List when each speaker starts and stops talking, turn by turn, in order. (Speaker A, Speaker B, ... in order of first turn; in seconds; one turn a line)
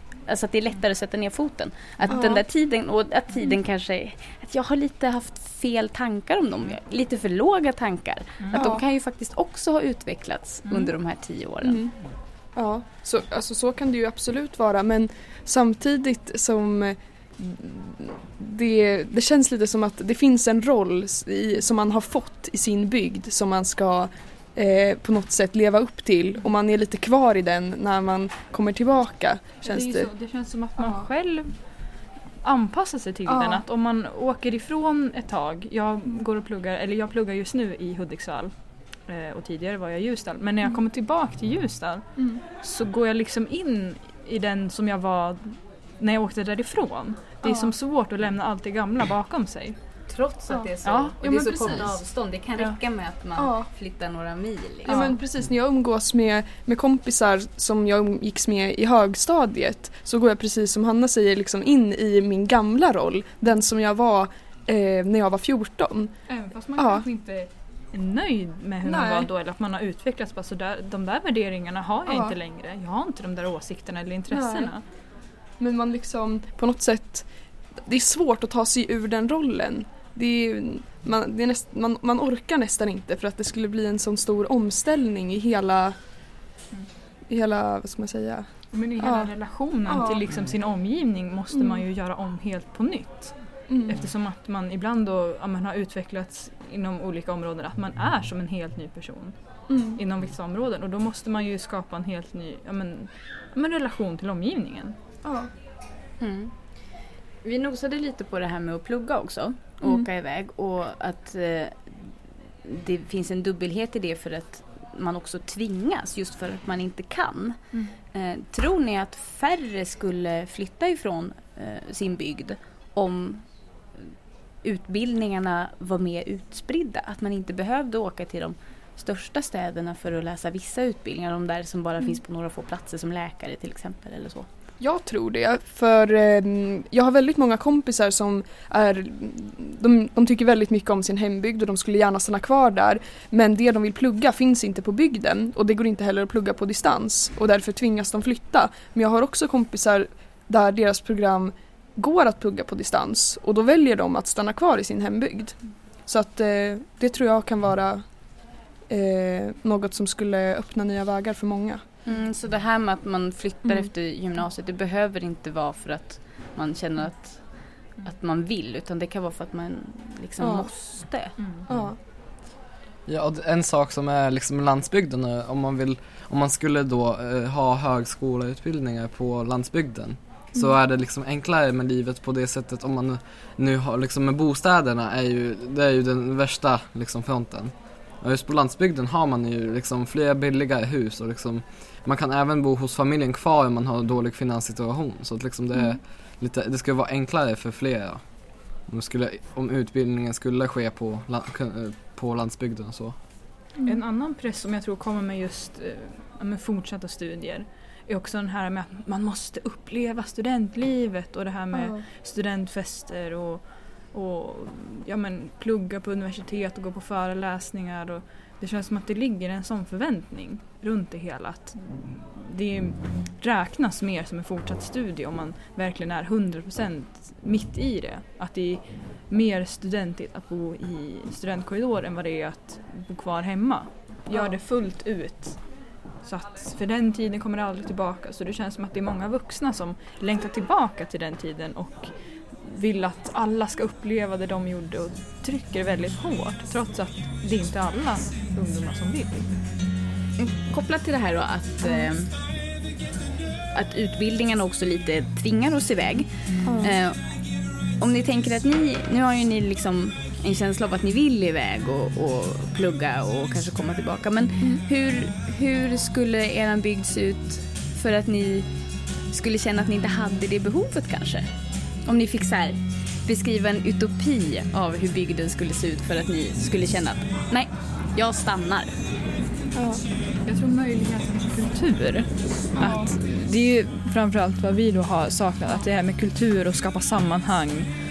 Speaker A: 0.3-11.8
Speaker B: 2.1-2.4
Speaker B: 8.5-8.8
Speaker C: 10.7-10.9
Speaker B: 11.6-11.9
Speaker B: 12.6-30.1
Speaker C: 29.6-31.5
Speaker B: 30.8-31.1
Speaker C: 32.4-38.5
Speaker B: 33.3-33.6
Speaker C: 39.1-42.0
Speaker B: 42.2-42.4
Speaker C: 42.5-49.8
Speaker B: 47.4-47.7
Speaker A: 50.1-55.1
Speaker C: 50.8-51.2
Speaker B: 51.2-52.0
Speaker B: 53.4-53.7
Speaker B: 54.8-66.1
Speaker C: 54.9-55.2
Speaker C: 66.3-74.8
Speaker B: 66.8-67.1
Speaker B: 68.8-69.3
Speaker B: 72.1-72.4
Speaker B: 74.3-74.7
Speaker B: 75.6-77.3
Speaker B: 77.9-85.9
Speaker B: 87.3-88.5
Speaker C: 88.7-93.3
Speaker B: 89.0-89.3
Speaker B: 89.8-90.2
Speaker B: 91.5-91.9
Speaker B: 93.7-94.1
Speaker C: 93.9-99.3
Speaker B: 99.7-100.0
Speaker C: 99.9-105.0
Speaker B: 105.2-105.5
Speaker A: 106.2-106.5
Speaker A: 107.4-112.1
Speaker A: 112.6-117.6
Speaker A: 118.1-123.4
Speaker A: 124.6-134.5
Speaker B: 134.8-158.2
Speaker B: 158.9-161.8
Speaker A: 162.1-171.4
Speaker B: 163.7-163.9
Speaker B: 170.4-170.7
Speaker C: 171.4-171.7
Speaker B: 171.7-171.9
Speaker D: 173.1-198.2
Speaker D: 198.9-203.2
Speaker C: 203.8-235.6
Speaker B: 211.7-212.0
Speaker C: 236.2-242.1
Speaker C: 242.6-249.5
Speaker A: 250.4-252.3
Speaker B: 251.8-252.1
Speaker A: 253.7-256.3
Speaker B: 256.6-257.0
Speaker A: 256.8-257.2
Speaker A: 258.0-268.7
Speaker A: 269.3-271.5
Speaker A: 272.1-278.9
Speaker B: 279.8-280.0
Speaker C: 280.4-287.9
Speaker B: 282.8-283.1